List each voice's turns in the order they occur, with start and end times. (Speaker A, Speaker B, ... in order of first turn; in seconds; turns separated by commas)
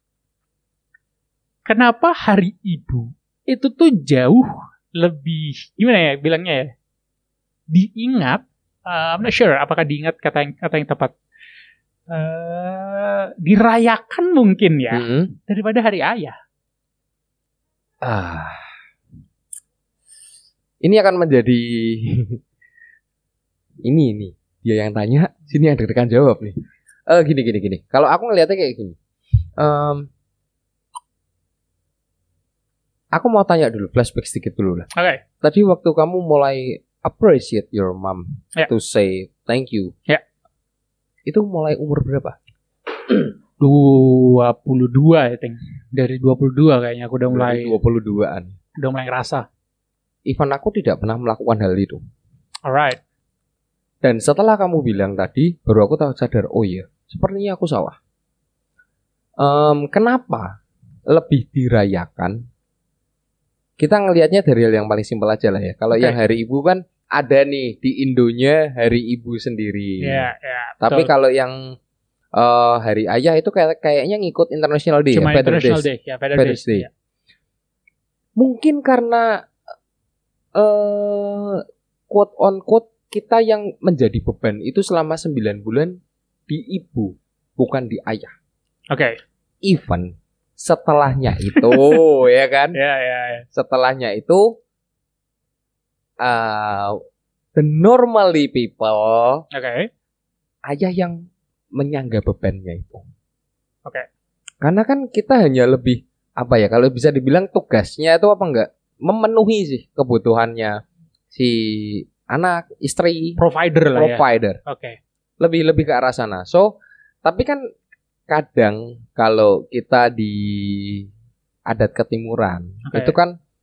Speaker A: 1.7-6.7, Speaker A: 7.7-11.1, Speaker A: 12.1-16.4, Speaker B: 14.9-15.3, Speaker B: 18.0-18.7, Speaker B: 20.8-22.4, Speaker B: 23.8-26.6, Speaker B: 27.1-29.0, Speaker B: 29.6-30.1, Speaker B: 33.1-34.9, Speaker A: 35.0-35.2, Speaker B: 35.4-39.9, Speaker B: 41.3-42.4, Speaker A: 43.6-47.8, Speaker B: 47.3-48.6, Speaker A: 48.8-49.5, Speaker B: 50.3-52.0, Speaker A: 52.7-53.0, Speaker B: 54.0-58.0, Speaker B: 59.4-60.6, Speaker B: 61.1-62.4, Speaker B: 63.8-70.3, Speaker A: 70.0-71.1, Speaker B: 70.8-71.6, Speaker B: 72.3-76.9, Speaker A: 75.1-76.9, Speaker B: 78.4-79.5, Speaker B: 80.6-88.3, Speaker A: 88.9-89.2, Speaker B: 89.6-92.8, Speaker A: 92.7-93.5, Speaker B: 93.5-94.6, Speaker B: 96.2-97.0, Speaker B: 97.5-99.4, Speaker A: 99.5-99.9, Speaker B: 100.7-101.2, Speaker B: 101.8-103.0, Speaker B: 104.6-110.8, Speaker B: 111.3-113.4, Speaker A: 113.4-115.0, Speaker B: 114.0-114.6, Speaker B: 115.4-116.7, Speaker B: 117.2-117.6, Speaker B: 118.3-121.1, Speaker B: 121.7-123.4, Speaker A: 122.9-123.2